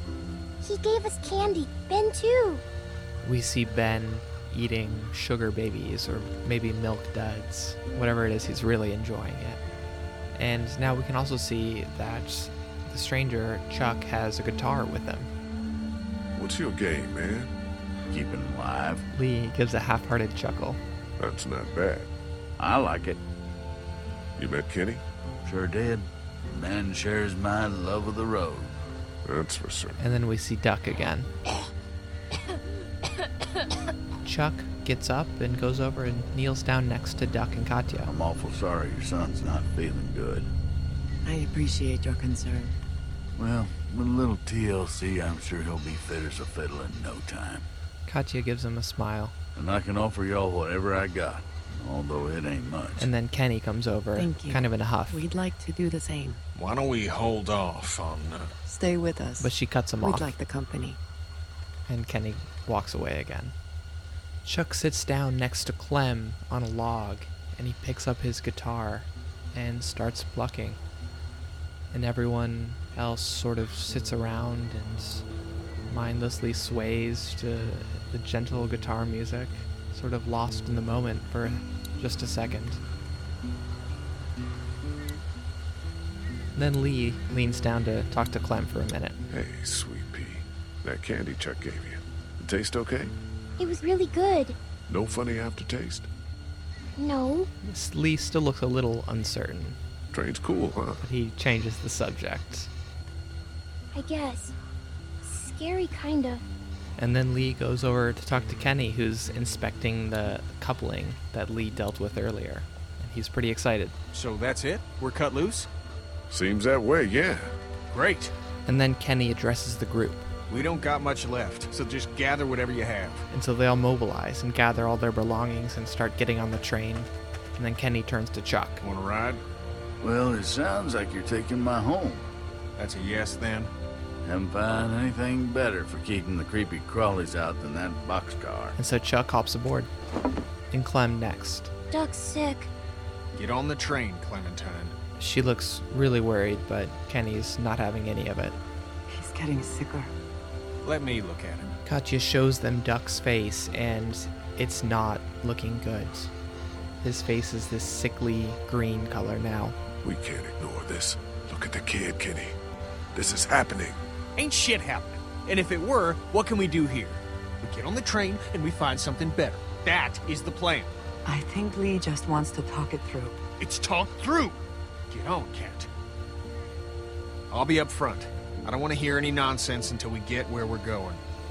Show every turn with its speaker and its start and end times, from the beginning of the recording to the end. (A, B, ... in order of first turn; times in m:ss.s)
0:00.6-0:02.6 A
0:03.2-0:09.6 B
0:10.4-0:15.3 B
0:16.4-0:17.5 C
0:18.1-0:19.0 D
0:19.1-0:20.8 B
0:21.2-0:22.1 C
0:22.6-0:23.2 D
0:24.4-0:25.0 C
0:25.4-0:28.7 D
0:29.2-0:30.0 C
0:30.0-0:31.3 B
0:34.2-0:38.1 B
0:38.0-0:40.5 D
0:41.2-0:42.8 E
0:43.4-0:47.7 D
0:48.1-0:49.3 B
0:49.6-0:53.1 D
0:53.0-0:55.2 B
0:54.2-0:56.4 E
0:56.6-0:58.5 F
0:58.7-1:01.0 E
0:59.4-1:00.3 B
1:01.9-1:03.6 B
1:04.4-1:10.8 B
1:11.9-1:15.2 B
1:15.9-1:22.8 B
1:26.6-1:29.2 B
1:29.3-1:33.2 C
1:33.6-1:34.6 A
1:34.9-1:36.1 C
1:37.0-1:37.5 A
1:37.6-1:39.8 B
1:40.1-1:41.1 C
1:41.0-1:42.7 B
1:43.9-1:44.6 A
1:45.2-1:46.4 A
1:47.0-1:54.0 B
1:54.1-1:55.7 F
1:56.3-1:57.5 C
1:57.9-1:58.3 F
1:58.7-2:00.3 B
2:00.5-2:03.3 F
2:03.3-2:08.8 B
2:08.8-2:09.4 F
2:10.0-2:12.3 D
2:12.8-2:13.7 F
2:14.2-2:18.8 D
2:18.8-2:19.9 B
2:20.7-2:21.7 B
2:21.9-2:22.7 A
2:23.3-2:24.9 F
2:25.2-2:28.6 B
2:29.1-2:30.1 E
2:30.8-2:31.7 F
2:31.8-2:36.3 B
2:37.0-2:39.8 B
2:40.0-2:42.6 C
2:43.1-2:44.0 C
2:44.4-2:50.9 F
2:51.2-2:53.4 E
2:53.6-2:54.6 F
2:55.1-2:55.9 F
2:57.5-3:01.2 F